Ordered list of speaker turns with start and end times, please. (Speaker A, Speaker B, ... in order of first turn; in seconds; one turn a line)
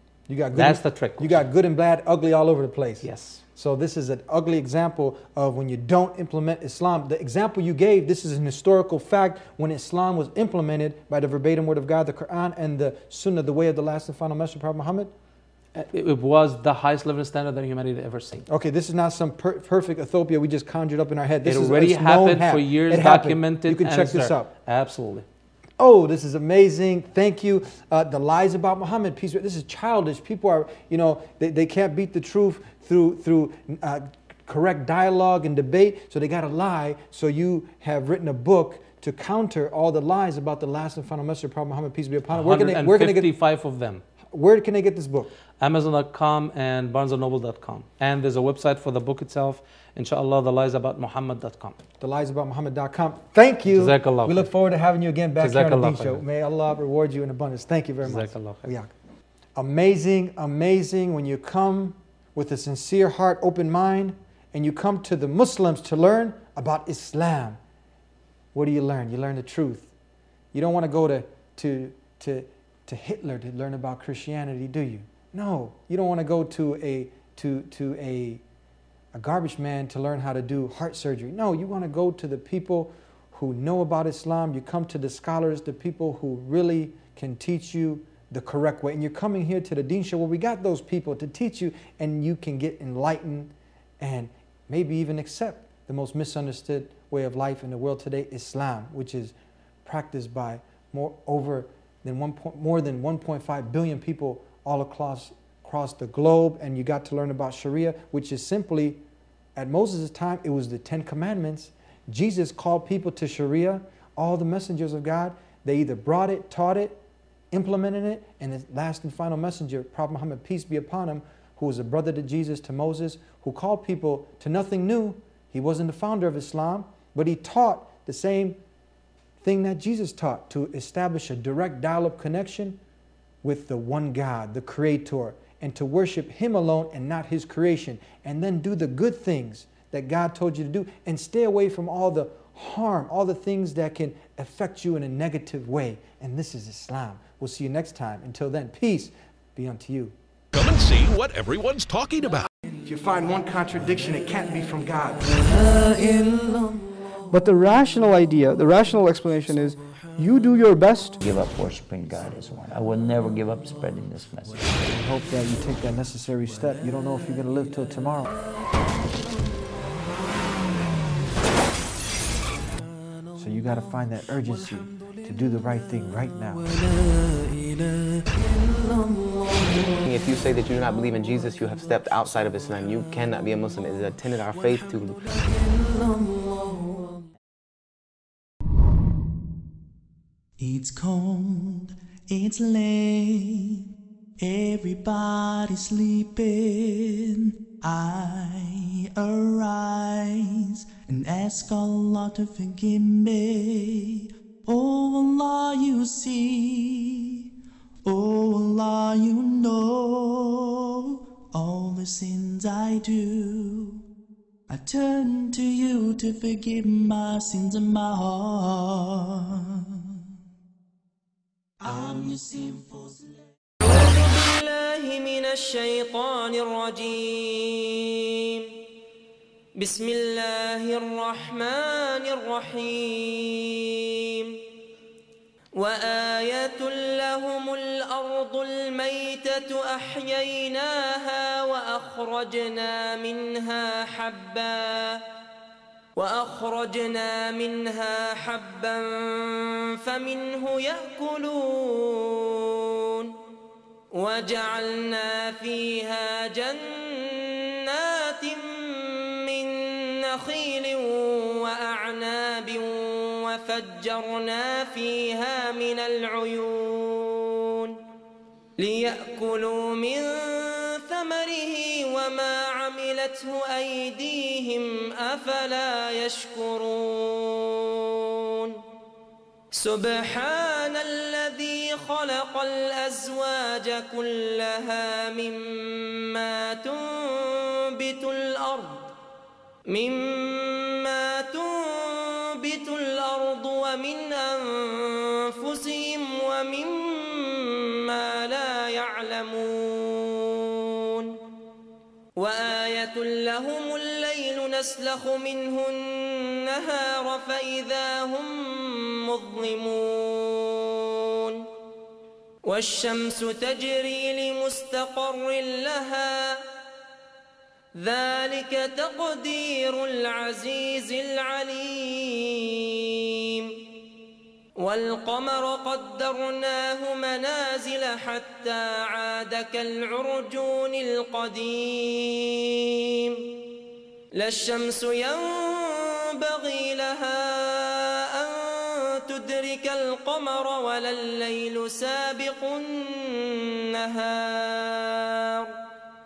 Speaker A: 0.3-15.1
Speaker B: 0.5-1.4
Speaker B: 3.0-3.4
Speaker B: 15.8-18.5
Speaker A: 18.5-24.5
Speaker B: 21.4-25.3
Speaker A: 25.8-43.3
Speaker B: 42.3-44.0
Speaker A: 44.3-45.3
Speaker B: 45.6-51.8
Speaker A: 52.0-58.9
Speaker B: 53.7-54.5
Speaker B: 55.4-56.2
Speaker B: 58.0-58.7
Speaker A: 59.5-67.6
Speaker A: 68.5-69.9
Speaker A: 70.5-78.4
Speaker A: 79.1-99.3
Speaker A: 99.8-109.0
Speaker A: 109.5-117.0
Speaker A: 117.5-128.6
Speaker A: 129.4-132.8
Speaker A: 133.4-150.2
Speaker C: 150.5-152.5
Speaker A: 152.8-155.2
Speaker D: 155.3-161.2
Speaker E: 161.2-164.8
Speaker A: 164.9-168.3
Speaker A: 173.3-176.7
Speaker F: 180.0-185.2
Speaker G: 190.6-193.8
Speaker G: 194.4-207.4
Speaker G: 208.1-214.0
Speaker G: 214.7-220.0
Speaker G: 221.8-223.3
Speaker H: 223.9-228.7
Speaker H: 229.8-234.6
Speaker H: 235.8-245.2
Speaker H: 246.2-253.3
Speaker H: 254.2-268.0
Speaker H: 268.8-278.8
Speaker H: 279.7-289.1
Speaker H: 289.9-301.4
Speaker H: 302.4-311.6
Speaker H: 312.7-316.6
Speaker H: 318.0-323.8
Speaker H: 324.8-333.4
Speaker H: 334.4-345.7